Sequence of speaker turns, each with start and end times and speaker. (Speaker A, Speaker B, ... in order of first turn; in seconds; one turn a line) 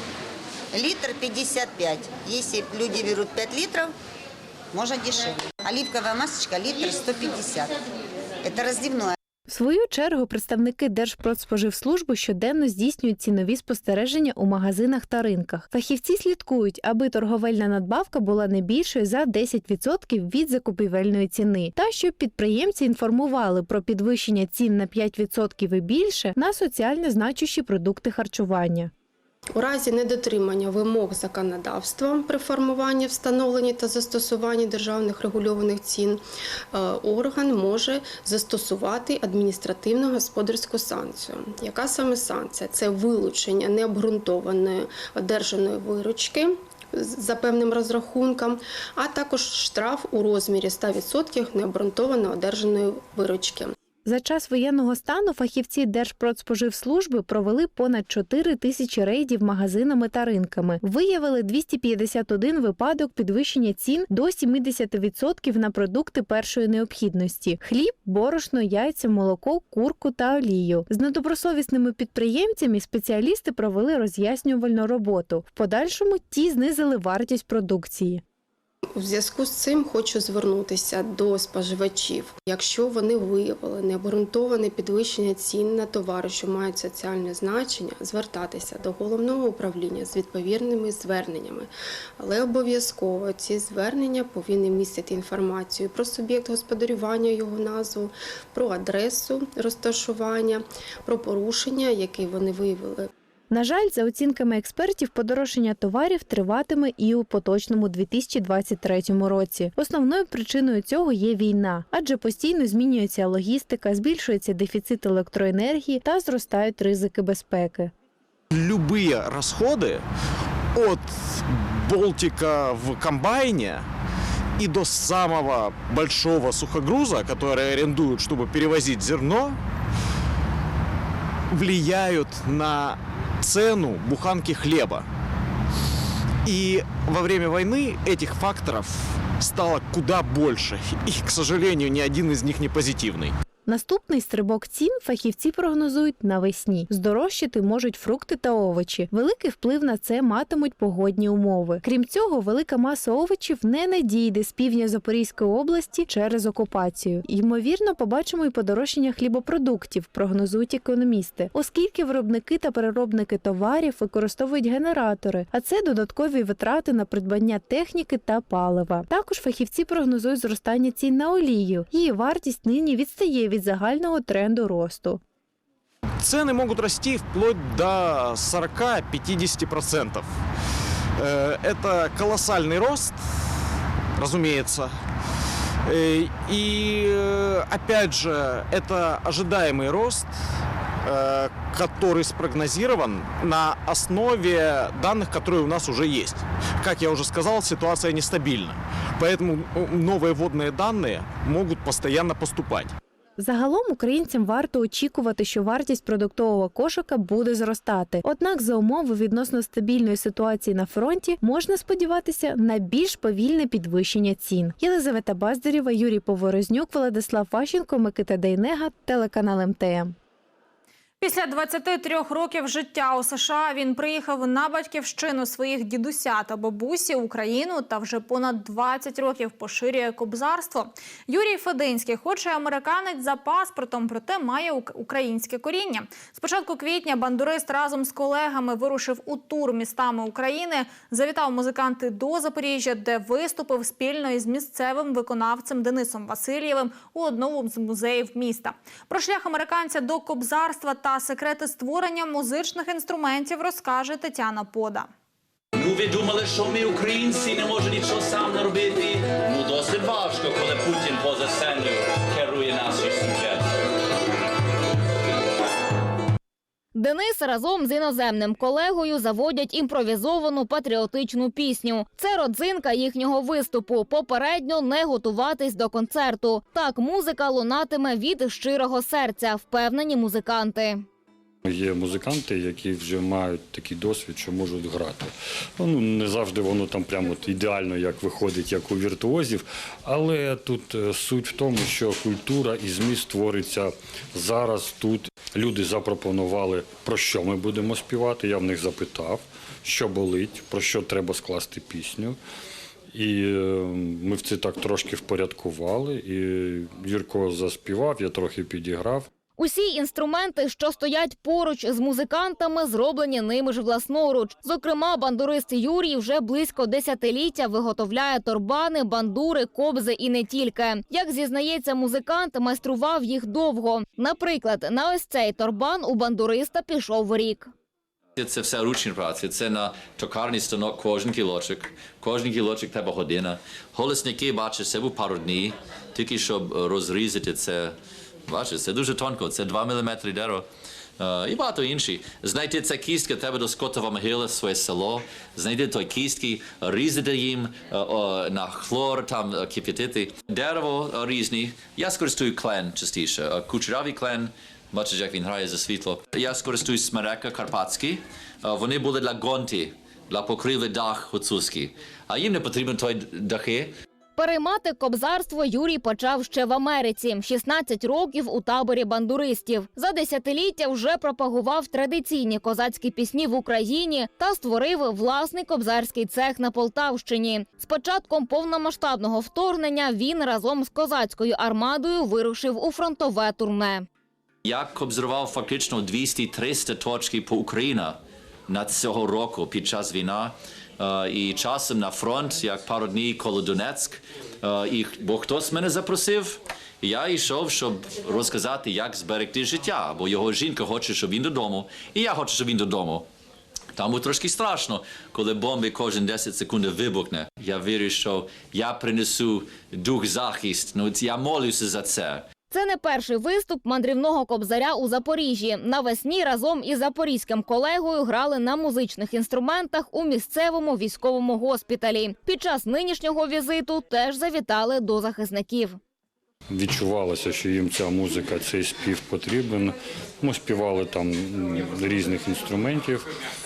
Speaker A: 0.8-1.4
Speaker A: 2.3-3.2
Speaker A: 4.7-5.2
Speaker A: 5.7-7.6
Speaker A: 8.4-9.0
Speaker B: 9.5-28.9
Speaker C: 29.5-36.2
Speaker C: 36.7-53.7
Speaker B: 54.0-78.2
Speaker C: 78.9-103.1
Speaker B: 103.5-117.9
Speaker D: 118.5-120.0
Speaker D: 120.7-123.8
Speaker D: 124.6-129.6
Speaker D: 131.5-135.1
Speaker D: 136.4-143.3
Speaker B: 143.7-175.2
Speaker D: 176.2-180.3
Speaker D: 181.2-183.2
Speaker D: 184.2-184.9
Speaker D: 185.8-190.3
Speaker D: 191.0-202.9
Speaker B: 203.4-220.2
Speaker E: 221.2-255.1
Speaker F: 255.7-263.7
Speaker G: 266.9-281.0
Speaker H: 281.6-302.4
Speaker H: 303.1-309.3
Speaker G: 309.6-327.7
Speaker F: 328.4-337.9
Speaker F: 338.5-340.6
Speaker F: 341.2-363.9
Speaker G: 364.4-384.0
Speaker F: 384.6-403.2
Speaker F: 403.9-412.4
Speaker G: 412.7-426.0
Speaker H: 426.7-433.3